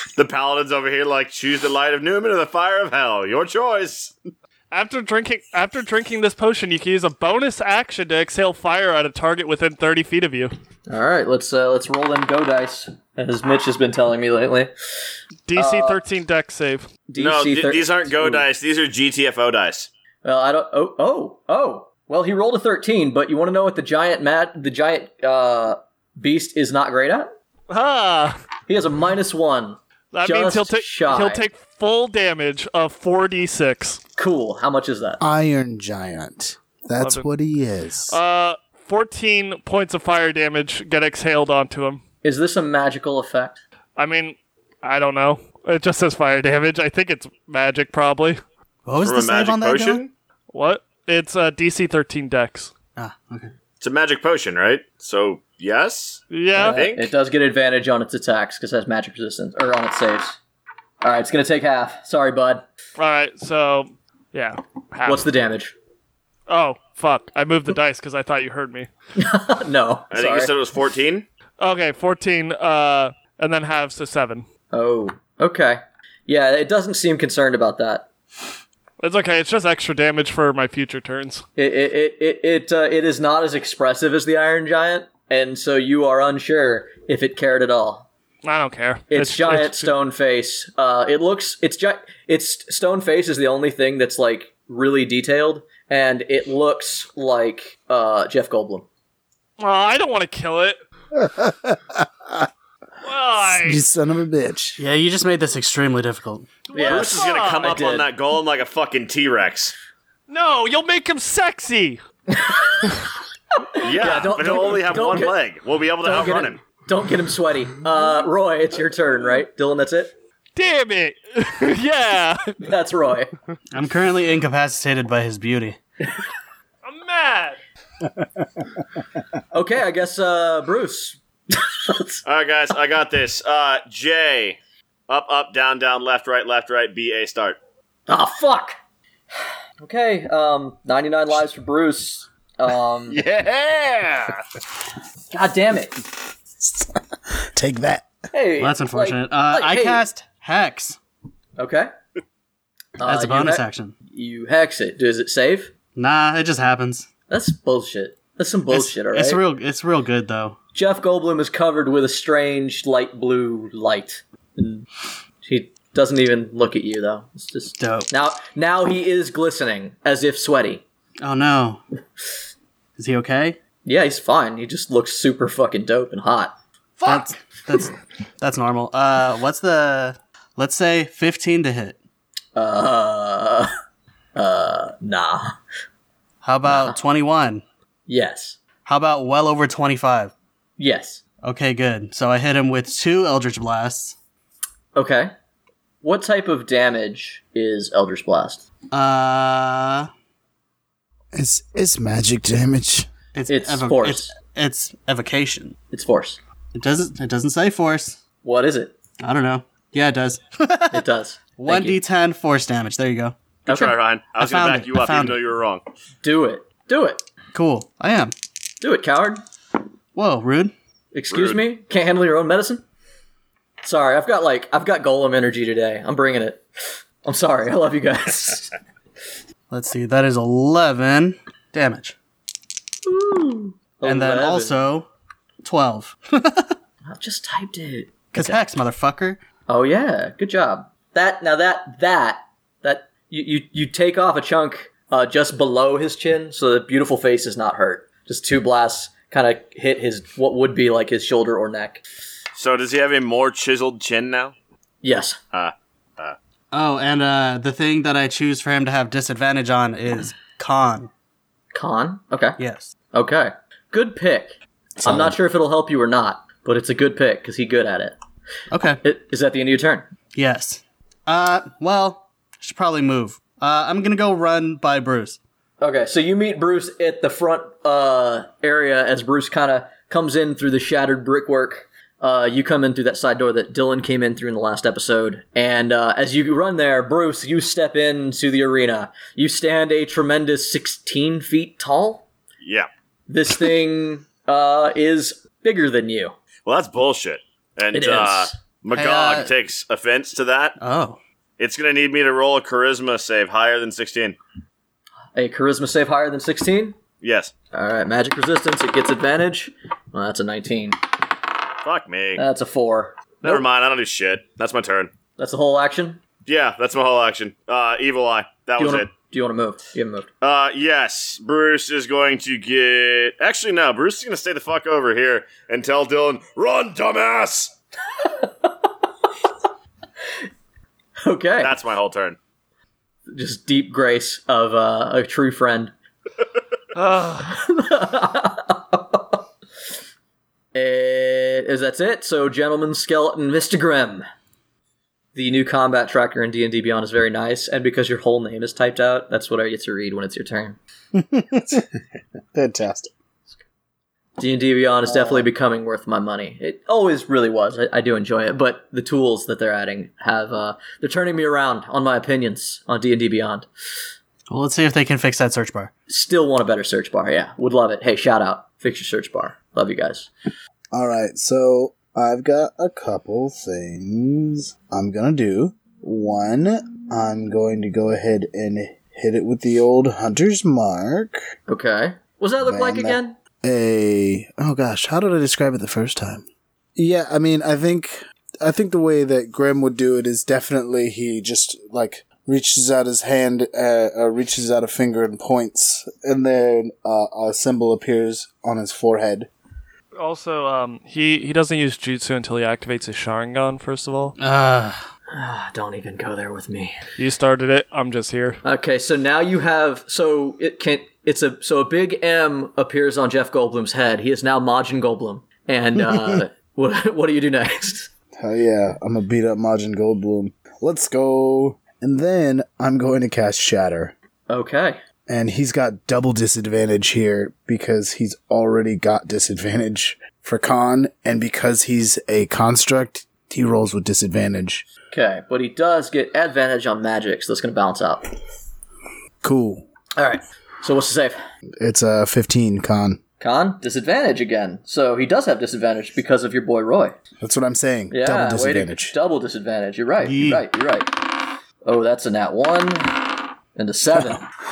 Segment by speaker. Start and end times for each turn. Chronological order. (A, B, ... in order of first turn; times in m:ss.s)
0:00.2-0:04.1 A
0:04.7-0:10.5 B
0:10.9-0:14.7 C
0:15.5-0:16.9 B
0:15.5-0:16.0 C
0:17.1-0:18.5 C
0:17.2-0:19.9 A
0:20.2-0:27.3 C
0:27.7-0:28.4 B
0:28.7-0:31.5 C
0:30.1-0:34.0 B
0:34.2-0:35.2 C
0:35.2-0:38.2 D
0:37.0-0:37.3 B
0:38.1-0:42.0 B
0:42.2-0:43.6 C
0:44.0-0:48.4 B
0:48.9-0:50.0 E
0:49.0-0:50.1 A
0:50.5-0:52.7 B
0:53.0-0:53.5 E
0:53.8-0:57.1 A
0:56.3-0:56.8 B
0:56.5-1:00.4 C
1:01.0-1:02.6 C
1:03.0-1:05.3 B
1:05.0-1:05.8 C
1:06.5-1:08.9 B
1:09.2-1:10.5 C
1:10.1-1:11.2 A
1:11.6-1:14.5 B
1:14.7-1:18.1 C
1:19.0-1:21.4 B
1:21.6-1:28.1 C
1:28.4-1:29.9 B
1:29.1-1:38.9 C
1:39.6-1:40.8 B
1:41.1-1:42.5 D
1:43.0-1:43.8 B
1:43.4-1:44.8 D
1:44.8-1:46.5 E
1:46.7-1:47.7 B
1:46.7-1:48.1 C
1:46.8-1:49.8 A
1:50.3-1:52.0 B
1:52.3-1:53.0 C
1:53.7-1:55.4 C
1:53.8-1:56.6 A
1:56.0-2:00.1 C
2:00.6-2:02.6 B
2:02.6-2:03.3 C
2:03.7-2:05.8 E
2:06.8-2:07.6 B
2:09.5-2:12.2 C
2:12.2-2:14.6 A
2:15.1-2:17.6 A
2:18.1-2:18.8 C
2:19.8-2:23.2 C
2:23.1-2:24.4 A
2:25.3-2:26.0 C
2:26.6-2:28.1 D
2:28.3-2:30.0 C
2:28.6-2:31.0 E
2:31.6-2:31.9 C
2:33.0-2:35.7 C
2:33.0-2:33.9 E
2:36.0-2:37.1 E
2:37.3-2:39.4 C
2:38.7-2:40.6 E
2:40.8-2:44.9 C
2:45.4-2:50.8 C
2:47.8-2:48.1 E
2:51.2-2:51.8 E
2:53.0-2:53.6 E
2:53.8-2:56.6 C
2:57.0-3:02.0 E
3:02.5-3:03.7 C
3:04.4-3:05.5 C
3:06.4-3:07.6 E
3:06.6-3:07.0 C
3:08.1-3:08.6 C
3:08.8-3:10.3 E
3:10.8-3:11.2 C
3:11.4-3:14.2 E
3:15.0-3:15.3 C
3:16.0-3:18.6 C
3:18.9-3:20.1 E
3:21.3-3:23.1 D
3:23.3-3:25.8 E
3:23.5-3:24.3 C
3:25.9-3:26.4 C
3:26.7-3:28.2 E
3:28.4-3:29.0 C
3:29.2-3:31.0 E
3:30.9-3:32.0 C
3:31.6-3:33.4 E
3:33.7-3:35.8 A
3:33.7-3:34.0 C
3:34.4-3:35.4 E
3:36.2-3:37.2 C
3:37.5-3:38.3 E
3:38.8-3:39.4 C
3:40.1-3:40.7 E
3:41.1-3:42.8 C
3:41.3-3:41.6 A
3:43.8-3:46.6 C
3:47.2-3:48.7 C
3:49.7-3:52.1 E
3:53.0-3:54.9 C
3:54.0-3:55.1 E
3:55.6-3:56.8 E
3:57.1-3:58.6 C
3:58.3-3:59.4 E
3:59.7-4:12.0 C
4:12.6-4:14.5 A
4:15.0-4:15.4 C
4:15.5-4:16.4 A
4:16.7-4:21.1 E
4:21.7-4:22.6 C
4:22.6-4:22.9 E
4:23.1-4:28.2 C
4:25.0-4:25.3 D
4:28.7-4:29.0 E
4:29.0-4:30.1 C
4:30.3-4:35.4 E
4:35.8-4:52.2 C
4:52.6-4:52.9 A
4:53.3-4:56.3 C
4:56.6-5:00.8 A
4:57.9-4:58.6 C
4:58.9-4:59.5 E
5:00.8-5:01.2 E
5:01.6-5:04.4 A
5:05.3-5:07.0 C
5:07.2-5:07.5 A
5:07.7-5:11.0 C
5:11.8-5:12.4 A
5:12.4-5:13.6 C
5:13.4-5:15.1 A
5:15.4-5:16.2 C
5:16.5-5:19.1 A
5:18.8-5:20.3 C
5:20.4-5:27.7 A
5:28.2-5:28.7 C
5:31.2-5:31.8 C
5:31.6-5:32.4 A
5:33.3-5:35.9 C
5:37.0-5:37.5 B
5:37.4-5:39.4 C
5:40.7-5:44.2 C
5:45.3-5:50.8 C
5:51.2-5:51.8 D
5:52.5-5:53.1 D
5:54.4-6:03.7 C
5:55.1-5:55.4 D
6:04.5-6:05.9 E
6:06.1-6:10.3 C
6:10.9-6:21.4 D
6:21.7-6:23.4 C
6:22.6-6:26.4 D
6:27.0-6:39.5 D
6:40.2-6:44.3 B
6:44.4-6:45.0 E
6:45.3-6:47.0 C
6:47.2-6:48.6 B
6:48.6-6:58.1 C
6:58.4-7:04.1 D
7:04.5-7:05.0 C
7:05.3-7:14.8 D
7:15.1-7:18.2 C
7:19.4-7:19.8 D
7:20.2-7:21.4 C
7:21.8-7:23.2 D
7:23.4-7:27.2 C
7:27.4-7:29.1 D
7:28.1-7:34.4 C
7:30.2-7:30.6 E